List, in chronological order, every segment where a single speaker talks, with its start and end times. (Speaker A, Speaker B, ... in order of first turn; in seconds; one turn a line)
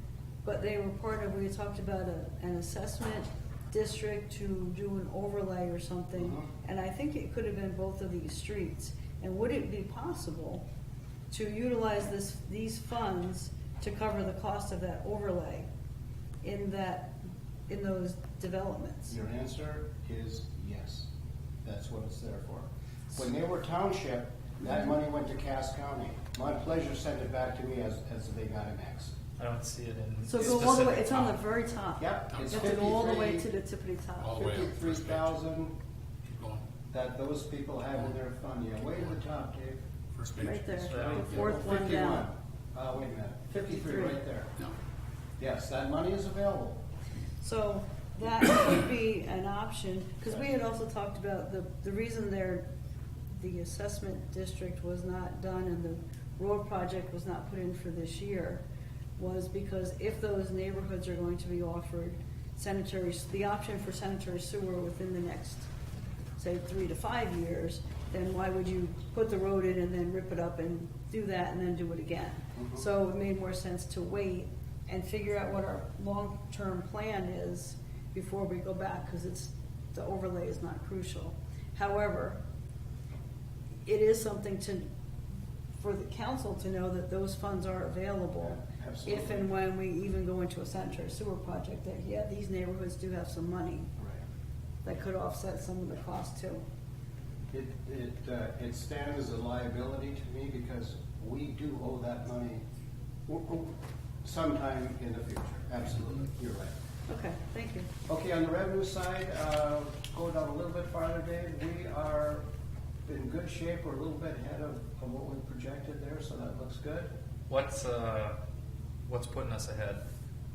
Speaker A: 0.4-10.6
Speaker B: 6.2-6.5
Speaker A: 11.3-15.7
Speaker A: 16.4-19.1
Speaker B: 19.1-21.1
Speaker B: 21.6-29.1
Speaker A: 24.6-24.9
Speaker C: 29.4-31.4
Speaker A: 30.2-34.4
Speaker B: 32.0-33.5
Speaker D: 32.3-32.8
Speaker D: 34.2-35.4
Speaker B: 34.4-35.7
Speaker D: 36.2-36.6
Speaker B: 36.9-39.8
Speaker D: 40.1-41.9
Speaker A: 40.4-42.3
Speaker C: 40.9-41.2
Speaker B: 41.1-44.5
Speaker A: 43.8-44.2
Speaker B: 45.4-46.8
Speaker A: 47.4-52.7
Speaker A: 53.3-58.6
Speaker A: 59.2-65.7
Speaker A: 66.4-82.4
Speaker B: 72.5-72.8
Speaker A: 83.8-84.9
Speaker A: 85.8-93.9
Speaker B: 88.4-89.5
Speaker B: 94.0-94.2
Speaker A: 94.8-96.6
Speaker B: 97.5-102.6
Speaker B: 103.3-106.7
Speaker A: 107.1-107.9
Speaker B: 108.1-112.4
Speaker B: 113.0-117.1
Speaker C: 117.5-118.4
Speaker C: 119.0-120.0